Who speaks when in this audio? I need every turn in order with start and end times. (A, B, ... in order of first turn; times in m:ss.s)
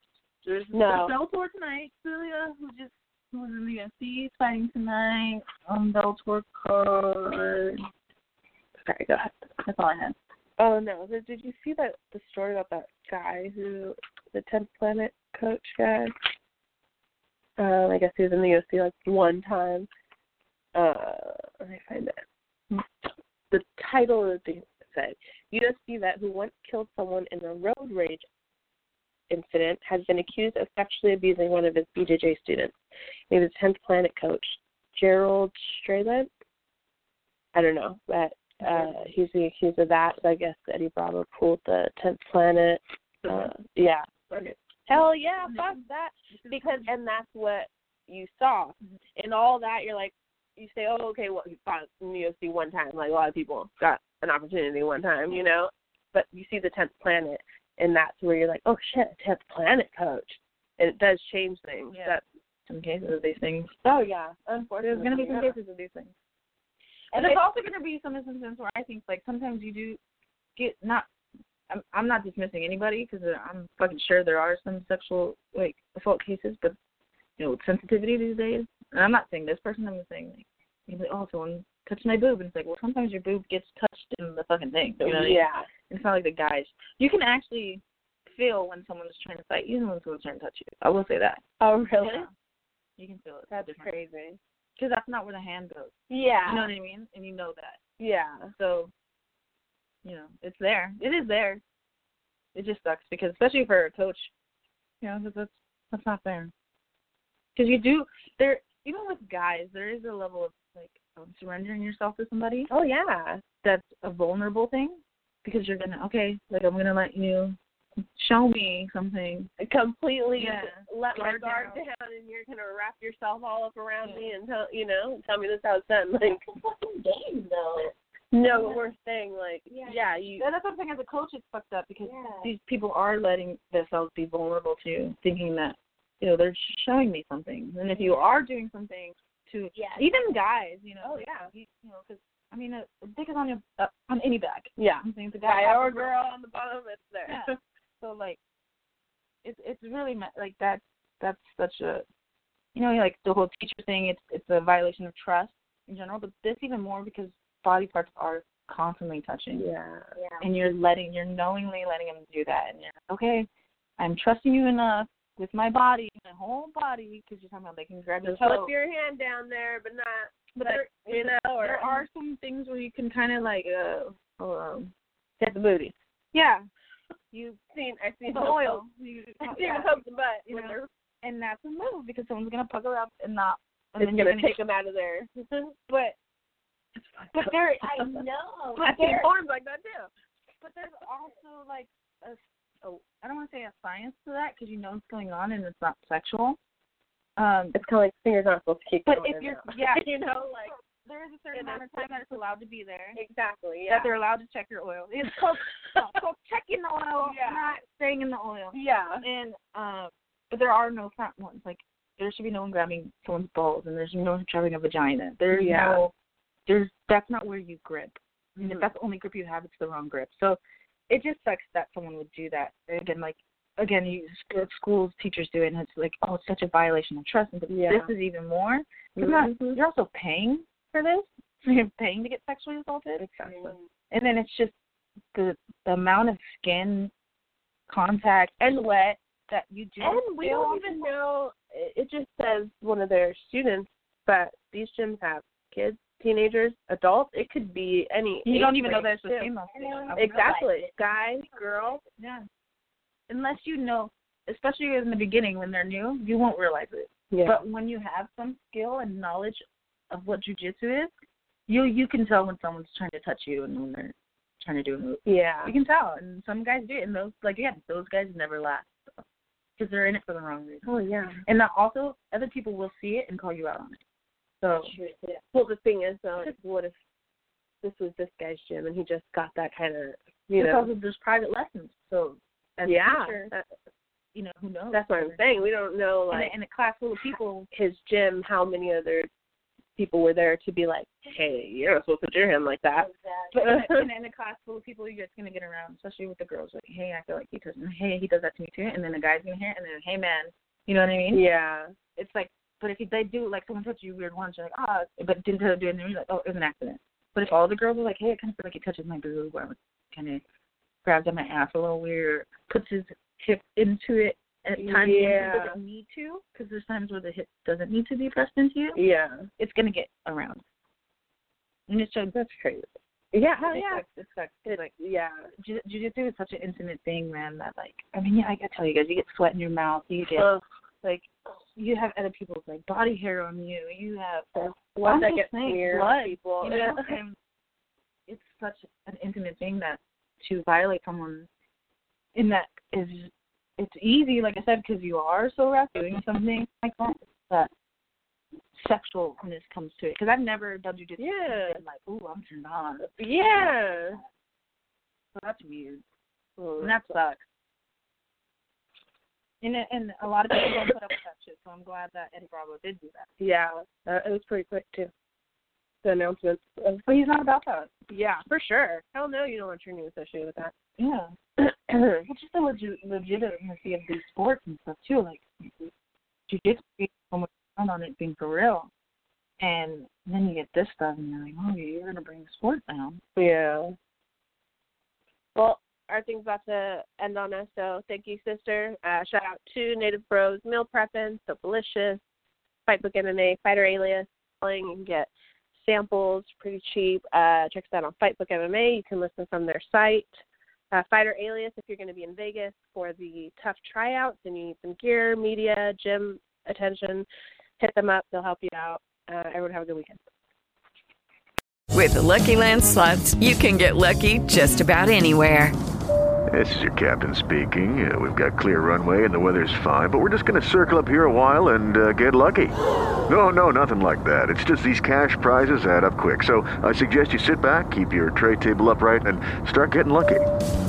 0:00.4-0:01.2 A
0:00.7-0:07.8 B
0:08.8-0:09.4 A
0:09.6-0:10.2 B
0:10.6-0:16.1 A
0:17.6-0:19.9 A
0:20.7-0:22.8 A
0:23.5-0:28.2 A
0:29.3-0:32.7 A
0:33.3-0:36.3 A
0:37.5-1:02.2 A
0:38.6-0:38.9 B
0:43.2-0:43.5 B
0:44.9-0:46.9 B
1:01.9-1:03.8 B
1:03.8-1:05.5 A
1:04.8-1:06.1 B
1:07.1-1:10.0 B
1:07.1-1:07.4 A
1:10.6-1:11.1 B
1:11.7-1:16.8 B
1:17.4-1:31.4 B
1:25.0-1:25.7 A
1:31.6-1:32.3 A
1:32.0-1:32.3 B
1:33.0-1:33.9 B
1:33.5-1:34.4 A
1:34.8-1:35.9 B
1:36.1-1:36.7 A
1:36.4-1:37.8 B
1:38.0-1:38.5 A
1:38.6-1:38.9 B
1:40.0-1:41.6 B
1:41.2-1:41.6 A
1:42.5-1:44.3 B
1:45.0-1:46.5 B
1:47.5-1:52.7 B
1:52.7-1:53.4 A
1:53.6-1:57.6 B
1:58.1-1:59.5 B
1:59.6-2:06.4 A
2:00.4-2:01.8 B
2:06.4-2:07.9 C
2:08.3-2:10.4 A
2:08.5-2:08.8 C
2:09.7-2:10.1 C
2:10.4-2:26.1 B
2:12.0-2:12.5 C
2:19.7-2:20.1 C
2:21.0-2:21.5 A
2:24.8-2:27.6 A
2:27.3-2:28.4 B
2:29.4-2:32.0 B
2:32.7-2:39.6 B
2:39.5-2:40.1 A
2:40.2-2:40.5 C
2:40.4-2:48.7 B
2:48.2-2:52.0 A
2:50.6-2:54.9 B
2:55.4-2:55.9 A
2:56.3-2:56.7 B
2:57.3-2:57.6 B
2:57.7-2:58.8 A
2:58.3-3:04.6 B
2:59.4-3:00.8 A
3:04.0-3:05.7 A
3:05.9-3:06.2 B
3:06.9-3:08.2 B
3:07.7-3:09.3 C
3:08.8-3:10.1 A
3:10.6-3:16.6 B
3:17.4-3:17.8 B
3:17.7-3:20.7 A
3:19.0-3:20.1 B
3:21.0-3:23.2 B
3:21.5-3:22.0 A
3:23.1-3:24.1 A
3:23.9-3:36.1 B
3:27.2-3:27.6 A
3:28.7-3:29.2 A
3:35.5-3:36.0 A
3:36.6-3:54.7 B
3:38.6-3:38.9 A
3:47.7-3:48.1 A
3:49.2-3:49.8 A
3:53.2-3:53.8 A
3:55.3-3:57.1 B
3:57.9-4:01.1 B
4:00.0-4:09.5 A
4:08.4-4:10.6 B
4:09.7-4:11.0 C
4:10.1-4:12.0 A
4:12.2-4:12.5 B
4:13.3-4:21.1 B
4:17.3-4:17.6 A
4:21.7-4:29.2 B
4:25.2-4:25.7 A
4:29.8-4:30.9 B
4:30.8-4:31.4 A
4:31.4-4:34.0 B
4:34.6-4:35.0 A
4:34.8-4:35.4 C
4:35.5-4:37.0 A
4:37.8-4:40.9 A
4:40.6-4:43.5 B
4:42.8-4:43.7 A
4:44.3-4:45.6 B
4:44.9-4:46.5 A
4:46.3-4:47.7 B
4:47.7-4:49.3 A
4:50.0-4:54.0 A
4:53.0-4:53.5 C
4:53.5-5:01.4 B
5:01.3-5:01.9 A
5:02.2-5:10.4 B
5:11.0-5:19.0 B
5:14.8-5:15.8 A
5:18.9-5:19.5 A
5:19.6-5:20.6 B
5:21.9-5:22.3 B
5:22.3-5:24.0 A
5:23.6-5:24.9 B
5:24.6-5:25.5 A
5:25.6-5:37.4 B
5:30.4-5:30.6 A
5:34.5-5:37.2 A
5:38.3-5:41.5 B
5:42.3-5:47.7 B
5:48.7-5:54.3 B
5:51.2-5:51.8 A
5:53.0-5:54.2 A
5:55.3-5:56.0 B
5:56.6-5:57.2 A
5:56.8-5:57.4 B
5:59.6-6:03.3 B
6:03.4-6:05.1 A
6:06.0-6:07.0 A
6:07.0-6:07.9 B
6:08.1-6:10.7 A
6:11.0-6:11.3 B
6:11.9-6:15.7 B
6:16.5-6:18.9 B
6:19.6-6:23.2 B
6:23.4-6:24.0 A
6:25.5-6:32.2 A
6:32.9-6:47.2 A
6:47.8-6:50.2 A
6:51.9-6:55.7 D
6:56.5-7:02.8 E
7:03.3-7:10.4 E